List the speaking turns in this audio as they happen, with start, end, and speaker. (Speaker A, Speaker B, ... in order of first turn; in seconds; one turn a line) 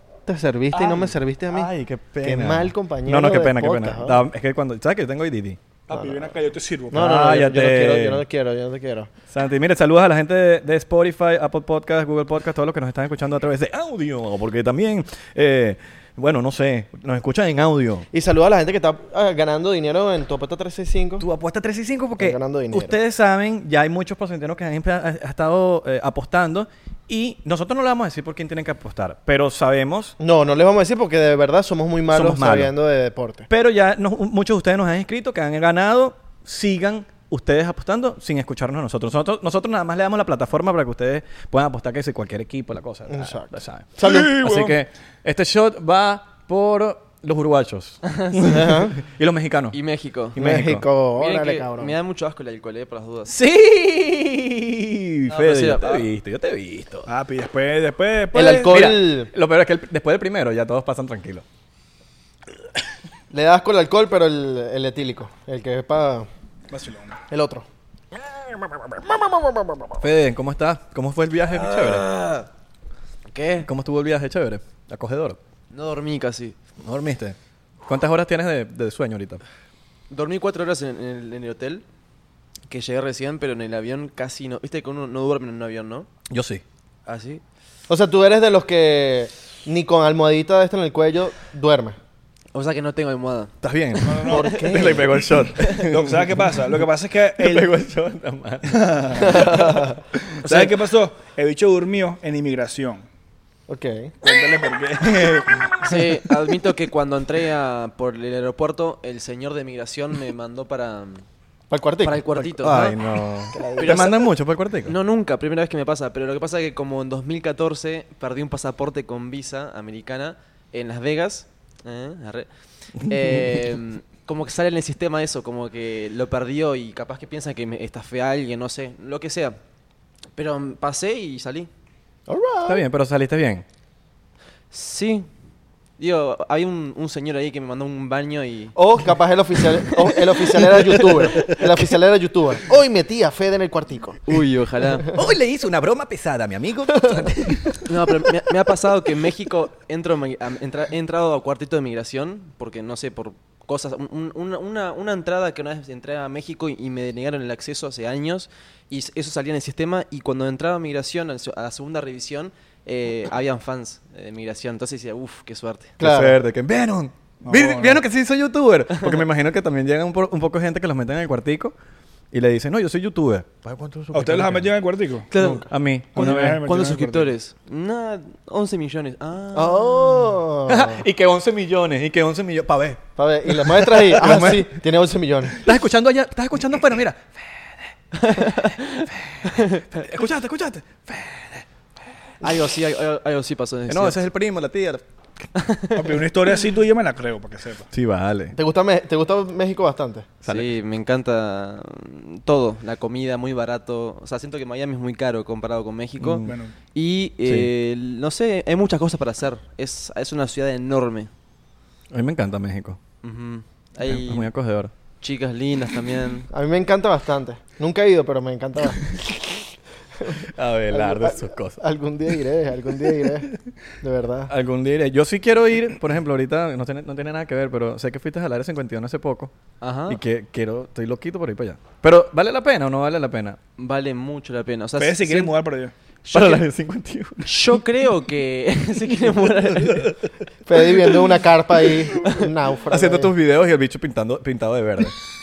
Speaker A: 0.3-1.7
Speaker B: 0.8-5.6
Speaker A: 2.2-4.2
Speaker C: 5.9-7.1
Speaker A: 5.9-6.3
Speaker A: 6.9-9.1
Speaker B: 6.9-8.2
Speaker B: 9.3-18.1
Speaker A: 18.1-21.3
Speaker B: 21.2-30.1
Speaker A: 22.2-23.0
Speaker A: 30.2-33.5
Speaker B: 32.1-32.7
Speaker B: 33.5-49.8
Speaker A: 43.1-44.4
Speaker C: 44.0-44.8
Speaker D: 48.1-48.7
Speaker A: 48.5-49.0
Speaker D: 49.7-50.4
Speaker B: 50.4-50.9
Speaker A: 50.4-51.9
Speaker D: 51.2-53.3
Speaker B: 53.3-57.1
Speaker D: 55.3-56.1
Speaker C: 57.1-58.8
Speaker A: 58.3-59.3
Speaker B: 58.4-61.4
Speaker A: 63.3-66.3
Speaker C: 66.7-67.2
Speaker A: 67.3-67.7
Speaker A: 69.1-69.8
Speaker B: 70.0-72.1
Speaker D: 71.5-72.5
Speaker D: 73.3-73.7
Speaker B: 73.6-75.4
Speaker D: 75.7-76.6
Speaker B: 76.8-79.4
Speaker D: 80.1-81.8
Speaker D: 82.7-86.1
Speaker B: 86.3-86.6
Speaker D: 87.1-87.4
Speaker A: 87.9-92.0
Speaker D: 92.5-93.6
Speaker B: 93.6-96.3
Speaker C: 94.0-94.7
Speaker A: 94.2-95.2
Speaker C: 95.7-97.7
Speaker B: 97.4-98.8
Speaker C: 98.7-99.8
Speaker A: 99.2-100.0
Speaker C: 100.3-103.0
Speaker D: 100.4-100.8
Speaker A: 103.7-104.1
Speaker C: 104.2-106.0
Speaker D: 105.8-111.2
Speaker A: 111.7-112.3
Speaker D: 112.0-113.0
Speaker B: 112.4-114.9
Speaker A: 113.5-114.0
Speaker D: 113.8-114.3
Speaker D: 114.9-129.6
Speaker D: 130.4-131.7
Speaker A: 132.3-132.8
Speaker B: 132.7-133.7
Speaker D: 134.7-135.3
Speaker D: 136.0-138.8
Speaker A: 138.8-144.2
Speaker D: 140.5-141.8
Speaker D: 144.3-145.1
Speaker B: 145.1-147.8
Speaker D: 147.8-166.0
Speaker A: 166.0-166.4
Speaker B: 166.0-171.7
Speaker C: 167.4-168.0
Speaker D: 168.9-169.2
Speaker B: 172.3-174.7
Speaker C: 174.1-175.3
Speaker D: 175.3-175.7
Speaker B: 175.4-176.6
Speaker C: 176.2-177.3
Speaker D: 176.6-180.2
Speaker A: 179.5-181.0
Speaker B: 180.7-184.8
Speaker A: 183.2-185.6
Speaker B: 185.6-187.9
Speaker D: 188.2-189.8
Speaker B: 189.2-191.7
Speaker D: 192.4-194.2
Speaker B: 193.9-195.0
Speaker D: 195.6-196.2
Speaker C: 195.9-197.9
Speaker B: 197.9-198.6
Speaker A: 198.5-200.3
Speaker B: 200.4-200.8
Speaker D: 200.5-211.3
Speaker B: 206.2-206.6
Speaker C: 206.5-206.8
Speaker B: 207.4-207.7
Speaker B: 212.1-213.0
Speaker D: 213.2-214.5
Speaker B: 214.0-214.9
Speaker D: 215.2-216.5
Speaker A: 216.5-219.2
Speaker A: 220.2-224.5
Speaker B: 220.4-221.8
Speaker B: 224.5-229.5
Speaker D: 229.8-230.2
Speaker B: 230.1-233.6
Speaker D: 233.8-235.5
Speaker C: 235.0-235.9
Speaker D: 236.2-236.6
Speaker B: 236.3-237.6
Speaker D: 237.4-240.1
Speaker A: 240.7-243.3
Speaker B: 242.9-245.2